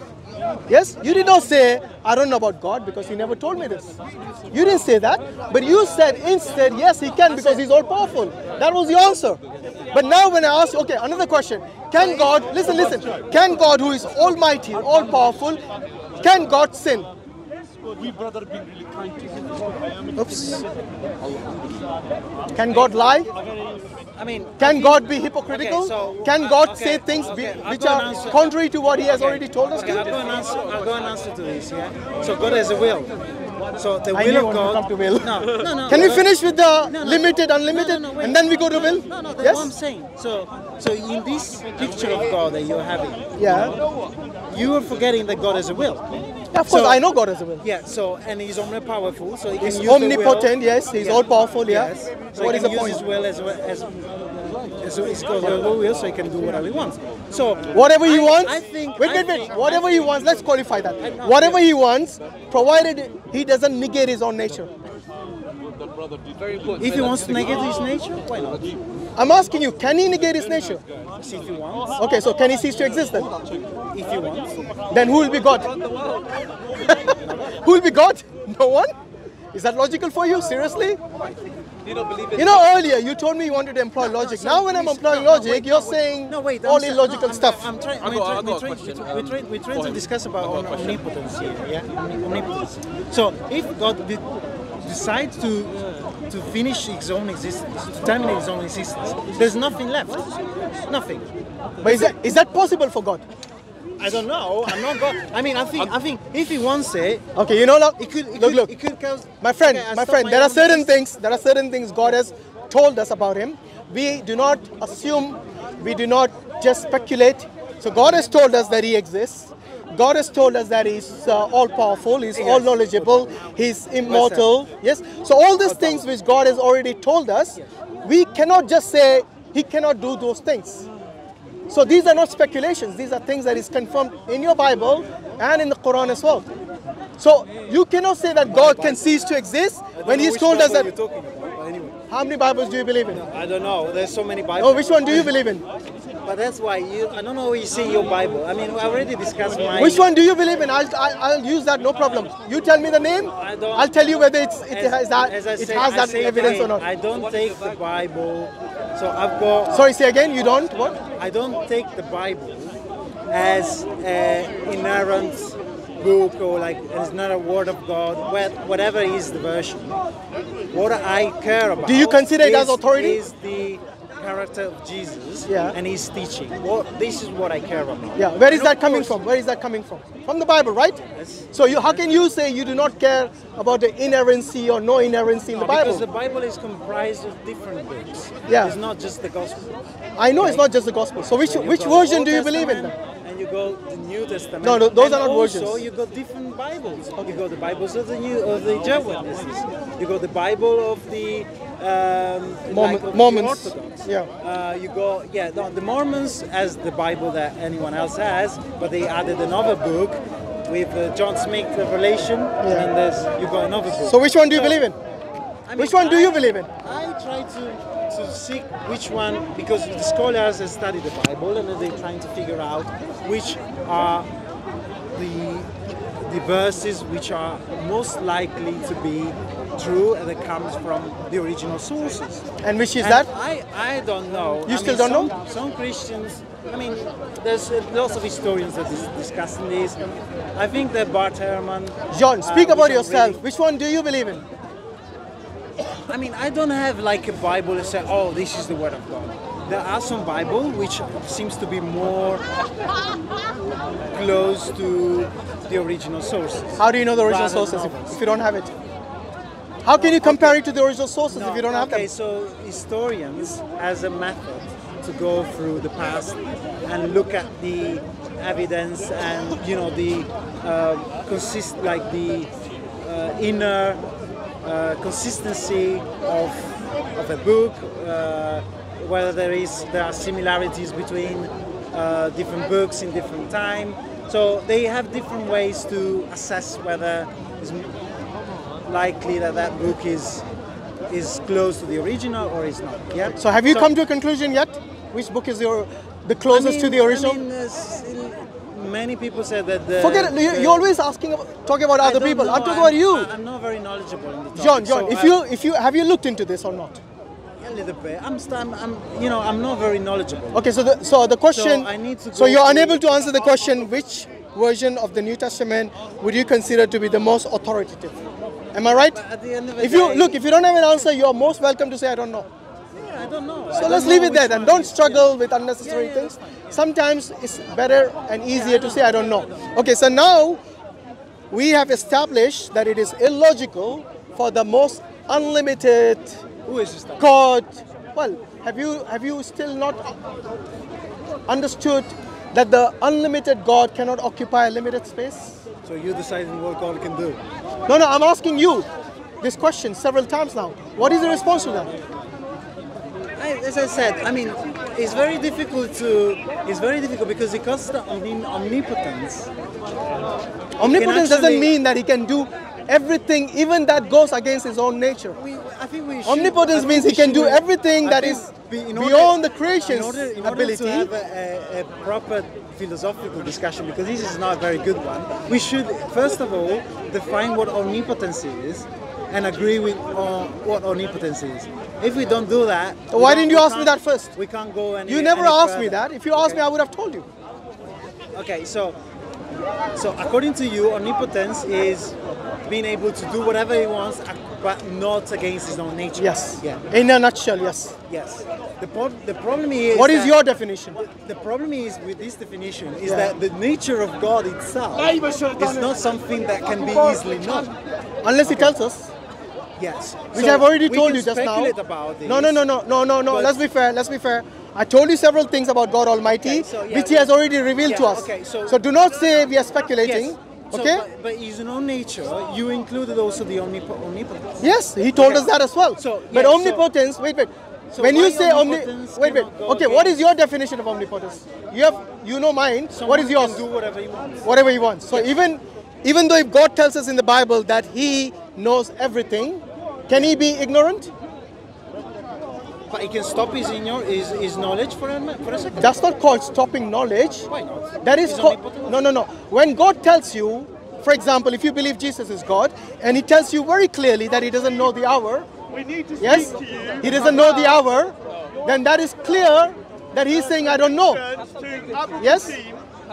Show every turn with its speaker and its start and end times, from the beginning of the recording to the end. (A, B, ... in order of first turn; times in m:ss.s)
0:00.7-0:04.0 A
0:04.5-0:09.4 A
0:07.3-0:07.6 B
0:09.9-0:15.6 A
0:12.0-0:13.2 B
0:16.2-0:17.1 A
0:18.1-0:18.6 C
0:20.2-0:20.6 A
0:22.6-0:23.3 A
0:24.2-0:28.5 B
0:24.6-0:30.2 A
0:29.1-0:33.1 B
0:33.8-0:43.8 B
0:34.1-0:39.7 A
0:43.4-0:43.8 A
0:44.5-0:46.0 B
0:46.5-0:47.6 A
0:46.7-0:47.0 B
0:47.6-1:00.0 B
0:49.6-0:53.0 A
0:57.7-1:04.7 A
1:01.0-1:01.7 B
1:06.4-1:07.5 C
1:06.8-1:08.8 B
1:09.2-1:10.8 A
1:11.2-1:12.0 B
1:12.0-1:13.3 A
1:13.9-1:14.6 B
1:14.9-1:15.7 A
1:15.6-1:16.9 C
1:16.8-1:18.9 A
1:17.2-1:17.5 B
1:19.5-1:21.0 A
1:21.8-1:22.6 C
1:22.4-1:27.7 A
1:24.0-1:41.3 B
1:28.0-1:31.0 C
1:41.8-1:43.2 A
1:41.8-1:42.1 B
1:44.0-1:47.2 B
1:47.4-1:48.7 A
1:48.0-1:51.0 B
1:49.4-2:10.9 A
2:02.3-2:03.3 B
2:04.0-2:04.5 B
2:05.6-2:06.1 B
2:11.7-2:16.5 A
2:17.2-2:20.9 A
2:18.4-2:19.1 B
2:19.9-2:22.0 B
2:22.1-2:23.2 A
2:23.1-2:25.3 B
2:24.6-2:25.6 A
2:26.2-2:30.1 B
2:29.8-2:36.8 A
2:33.4-2:33.9 B
2:34.7-2:39.9 B
2:39.7-2:41.0 A
2:41.2-2:42.8 B
2:43.3-2:50.0 B
2:50.7-2:59.2 B
2:51.8-2:53.2 A
2:55.5-2:55.8 A
2:58.2-3:01.0 A
3:01.1-3:02.1 B
3:01.5-3:06.0 A
3:05.5-3:09.8 B
3:08.5-3:08.8 A
3:10.2-3:13.0 A
3:10.4-3:10.7 B
3:11.4-3:34.8 B
3:14.6-3:15.8 A
3:22.7-3:24.3 A
3:32.6-3:32.9 A
3:34.0-3:35.0 A
3:35.6-3:44.3 B
3:35.8-3:36.7 A
3:45.1-3:52.4 B
3:52.6-3:53.3 A
3:53.0-4:03.4 B
3:54.6-3:55.3 A
4:02.1-4:04.4 A
4:06.1-4:12.4 B
4:14.1-4:18.2 B
4:16.8-4:18.7 A
4:19.8-4:22.1 A
4:19.9-4:20.6 B
4:21.3-4:32.5 B
4:33.0-4:34.0 B
4:34.6-4:48.0 B
4:48.8-4:50.4 B
4:51.1-4:53.9 B
4:53.3-4:57.4 A
4:56.5-5:00.8 B
5:00.0-5:03.3 A
5:02.0-5:05.4 B
5:04.5-5:07.0 A
5:07.6-5:10.6 B
5:10.5-5:18.2 A
5:11.5-5:13.0 B
5:18.7-5:19.2 A
5:19.0-5:20.4 B
5:19.8-5:22.5 A
5:22.9-5:26.8 B
5:23.7-5:30.6 A
5:28.5-5:29.1 B
5:31.5-5:36.4 A
5:36.6-5:37.4 B
5:37.2-5:40.2 A
5:41.5-5:45.6 A
5:45.8-5:47.4 B
5:47.9-5:48.9 A
5:49.4-5:51.9 A
5:53.4-5:59.5 B
6:00.8-6:05.4 A
6:00.8-6:01.7 B
6:05.3-6:26.6 B
6:06.2-6:11.1 A
6:23.1-6:24.3 A
6:25.0-6:27.2 A
6:28.3-6:29.0 B
6:29.9-6:36.8 B
6:36.2-6:37.9 A
6:38.1-6:40.4 B
6:39.9-6:41.0 A
6:41.0-6:47.8 B
6:43.0-6:43.3 A
6:45.0-6:47.7 D
6:48.2-6:49.1 A
6:48.4-6:48.7 B
6:49.8-6:52.6 B
6:50.3-6:51.7 A
6:52.2-7:01.0 A
6:53.3-6:53.6 B
6:56.4-6:58.8 B
7:00.0-7:06.9 B
7:04.6-7:13.6 A
7:07.9-7:10.2 B
7:12.9-7:14.6 B
7:14.4-7:21.1 A
7:22.9-7:26.0 B
7:25.8-7:27.5 A
7:27.5-7:29.0 B
7:28.0-7:35.5 A
7:35.7-7:37.8 D
7:36.2-7:41.2 A
7:40.3-7:42.8 D
7:42.2-7:42.5 A